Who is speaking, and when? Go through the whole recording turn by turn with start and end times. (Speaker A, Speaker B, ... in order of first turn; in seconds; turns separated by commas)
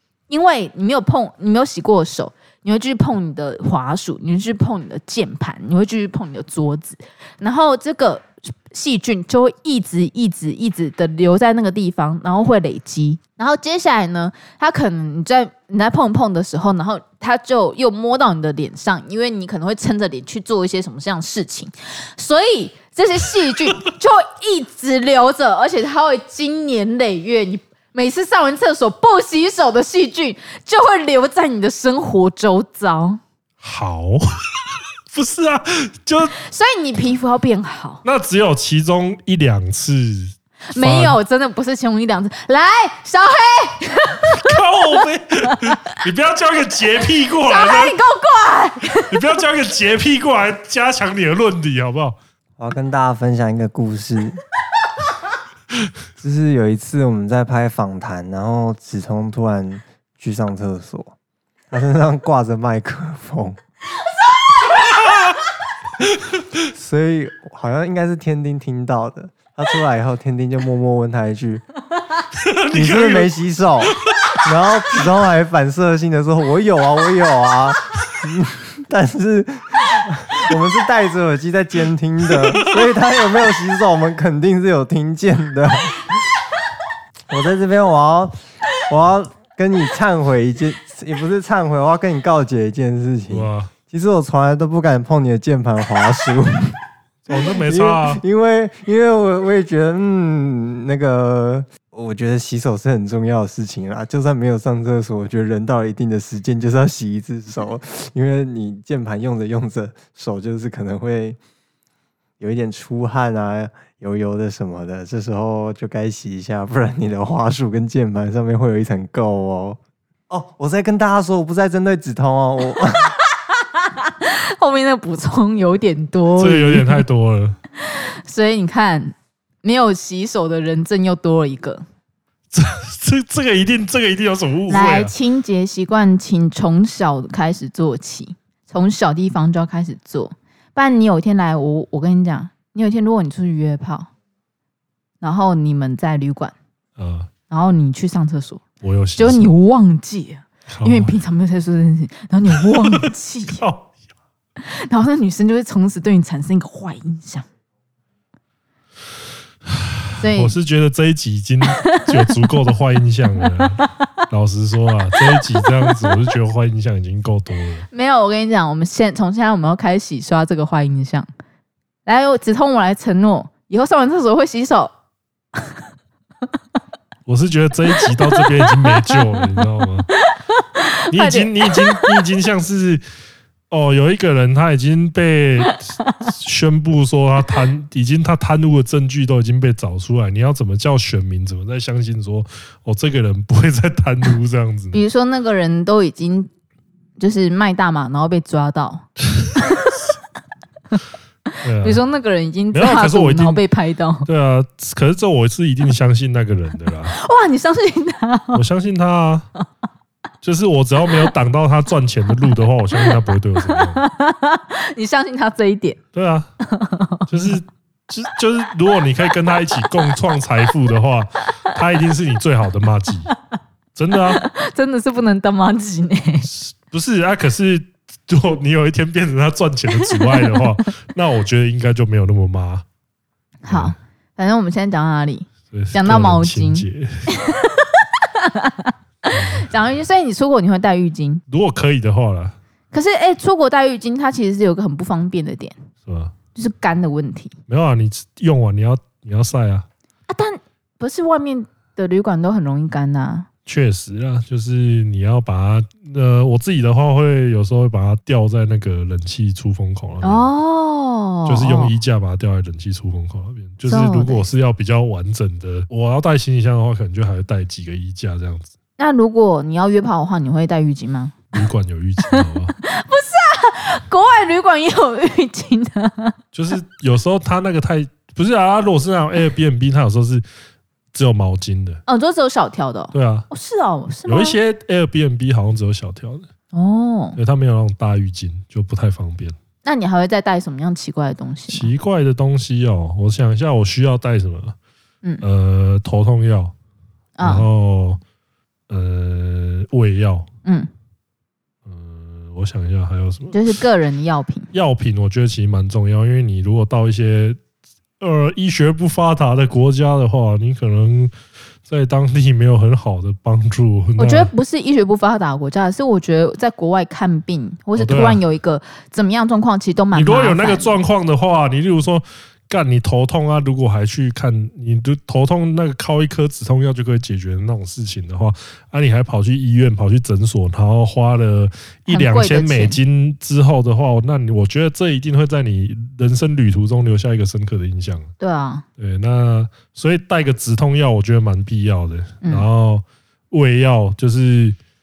Speaker A: 0.3-33.2, Speaker B: 33.6-34.3, Speaker B: 35.1-36.3, Speaker A: 36.4-38.0, Speaker B: 38.0-41.2, Speaker A: 40.7-45.8, Speaker B: 44.3-48.0, Speaker A: 47.5-49.4, Speaker B: 49.0-52.2, Speaker C: 52.6-54.4, Speaker C: 56.2-61.1, Speaker C: 61.7-63.6, Speaker B: 64.9-65.3, Speaker C: 66.7-71.6, Speaker B: 72.4-73.3, Speaker C: 72.7-86.2, Speaker B: 73.9-74.4, Speaker B: 82.5-82.8, Speaker C: 87.3-88.3, Speaker C: 88.9-96.8, Speaker B: 93.3-93.7, Speaker B: 97.3-98.2, Speaker C: 97.5-111.4, Speaker C: 112.4-119.8, Speaker C: 120.3-123.1, Speaker A: 123.5-127.0, Speaker B: 126.4-127.6, Speaker A: 127.8-131.8, Speaker B: 132.5-135.1, Speaker A: 134.7-144.1, Speaker A: 145.2-146.5, Speaker B: 147.0-147.3, Speaker A: 147.5-148.6, Speaker B: 148.8-149.5, Speaker A: 149.2-153.6, Speaker B: 150.7-151.1, Speaker B: 152.5-153.9, Speaker A: 154.6-157.4, Speaker B: 159.7-167.8, Speaker A: 160.2-160.5, Speaker A: 161.7-162.5, Speaker A: 163.4-163.9, Speaker A: 165.4-166.2, Speaker A: 167.9-171.3, Speaker A: 172.1-174.9, Speaker B: 177.2-180.1, Speaker A: 178.0-179.2, Speaker A: 180.1-182.2, Speaker B: 181.1-183.0, Speaker B: 183.7-195.0, Speaker A: 194.9-196.5, Speaker A: 197.2-200.1, Speaker B: 199.3-199.8, Speaker A: 201.5-204.3, Speaker B: 201.6-202.0, Speaker B: 202.7-203.6, Speaker B: 204.2-207.1, Speaker A: 207.1-208.6, Speaker B: 208.5-209.5, Speaker B: 210.4-214.0, Speaker A: 213.0-216.0, Speaker B: 216.1-216.5, Speaker A: 216.6-217.6, Speaker B: 217.3-223.3, Speaker B: 223.9-224.4, Speaker A: 224.3-226.5, Speaker B: 226.4-232.8, Speaker A: 230.0-230.7, Speaker A: 233.6-241.4, Speaker B: 233.7-233.9, Speaker B: 235.7-237.3, Speaker B: 239.3-239.7, Speaker B: 241.5-242.6, Speaker A: 242.9-245.8, Speaker B: 246.1-246.3, Speaker A: 246.5-247.5, Speaker B: 247.7-249.9, Speaker A: 250.3-253.5, Speaker B: 253.7-260.5, Speaker A: 260.2-261.9, Speaker B: 261.4-268.7, Speaker A: 263.9-264.5, Speaker A: 269.0-271.6, Speaker B: 271.5-272.7, Speaker A: 272.2-276.4, Speaker B: 276.5-280.4, Speaker B: 281.1-282.0, Speaker A: 282.1-284.6, Speaker B: 283.1-283.5, Speaker B: 284.3-286.5, Speaker A: 286.7-287.4, Speaker B: 287.4-289.6, Speaker A: 289.8-291.9, Speaker B: 291.7-294.8, Speaker B: 295.4-296.7, Speaker A: 297.4-297.7, Speaker B: 297.4-298.2, Speaker B: 298.9-300.5, Speaker A: 300.6-300.9, Speaker B: 301.9-303.6, Speaker A: 303.5-304.7, Speaker B: 304.7-307.6, Speaker B: 308.2-311.3, Speaker B: 311.9-314.5, Speaker A: 314.2-320.9, Speaker B: 317.9-318.4, Speaker B: 320.1-338.3, Speaker A: 332.1-333.0, Speaker A: 338.4-338.8, Speaker B: 339.0-344.8